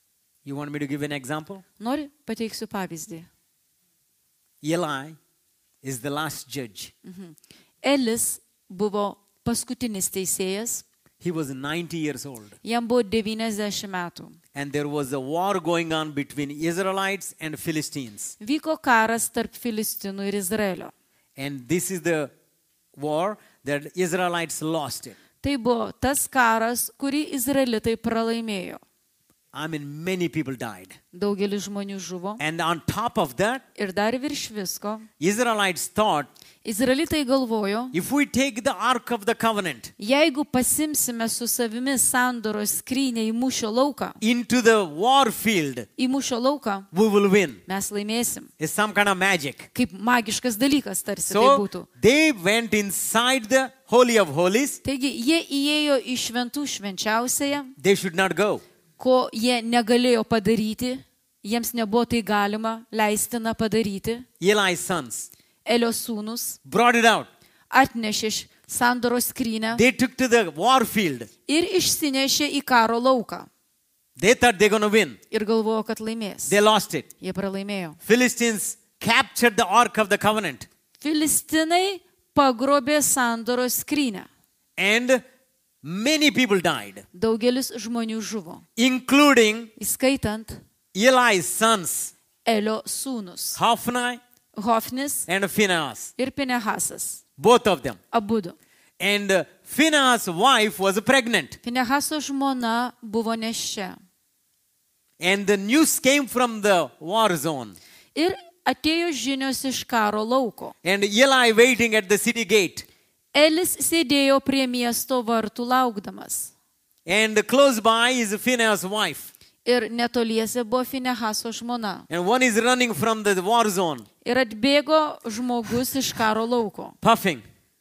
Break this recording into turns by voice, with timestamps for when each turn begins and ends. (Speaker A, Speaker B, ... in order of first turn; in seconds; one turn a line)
Speaker A: 0.4-1.6
Speaker B: 1.8-3.3
Speaker A: 4.6-5.2
Speaker A: 5.8-6.9
Speaker B: 7.0-10.8
Speaker A: 11.2-12.6
Speaker B: 12.6-14.4
Speaker A: 14.5-18.3
Speaker B: 18.4-20.9
Speaker A: 21.4-22.3
Speaker A: 22.9-25.1
Speaker B: 25.4-28.8
Speaker A: 29.5-31.0
Speaker B: 31.1-32.4
Speaker A: 32.4-33.6
Speaker B: 33.8-35.1
Speaker A: 35.2-36.3
Speaker B: 36.6-37.9
Speaker A: 37.9-39.9
Speaker B: 40.0-44.2
Speaker A: 44.2-45.9
Speaker B: 46.0-46.9
Speaker A: 46.9-47.6
Speaker B: 47.7-48.5
Speaker A: 48.6-49.7
Speaker B: 49.8-51.9
Speaker A: 51.3-54.8
Speaker B: 54.8-57.8
Speaker A: 57.8-58.6
Speaker B: 59.0-64.2
Speaker A: 64.4-65.3
Speaker B: 65.6-66.6
Speaker A: 66.6-67.3
Speaker B: 67.7-69.8
Speaker A: 69.7-71.3
Speaker B: 71.5-73.5
Speaker A: 74.2-75.2
Speaker B: 75.3-76.5
Speaker A: 76.5-77.1
Speaker B: 77.2-78.0
Speaker A: 78.0-80.7
Speaker B: 81.0-84.3
Speaker A: 84.8-85.2
Speaker A: 85.8-87.0
Speaker B: 87.1-88.6
Speaker A: 88.8-89.7
Speaker B: 89.8-90.6
Speaker A: 90.9-92.1
Speaker B: 92.5-93.6
Speaker A: 93.5-94.2
Speaker B: 94.5-95.3
Speaker A: 95.3-96.1
Speaker B: 96.2-97.2
Speaker A: 97.4-98.0
Speaker B: 98.1-98.5
Speaker A: 99.0-101.6
Speaker B: 101.6-104.0
Speaker A: 105.2-107.8
Speaker B: 108.1-110.7
Speaker A: 110.8-112.8
Speaker B: 113.3-116.5
Speaker A: 117.0-119.3
Speaker B: 119.6-122.1
Speaker A: 122.1-124.0
Speaker B: 124.2-127.0
Speaker A: 127.0-127.4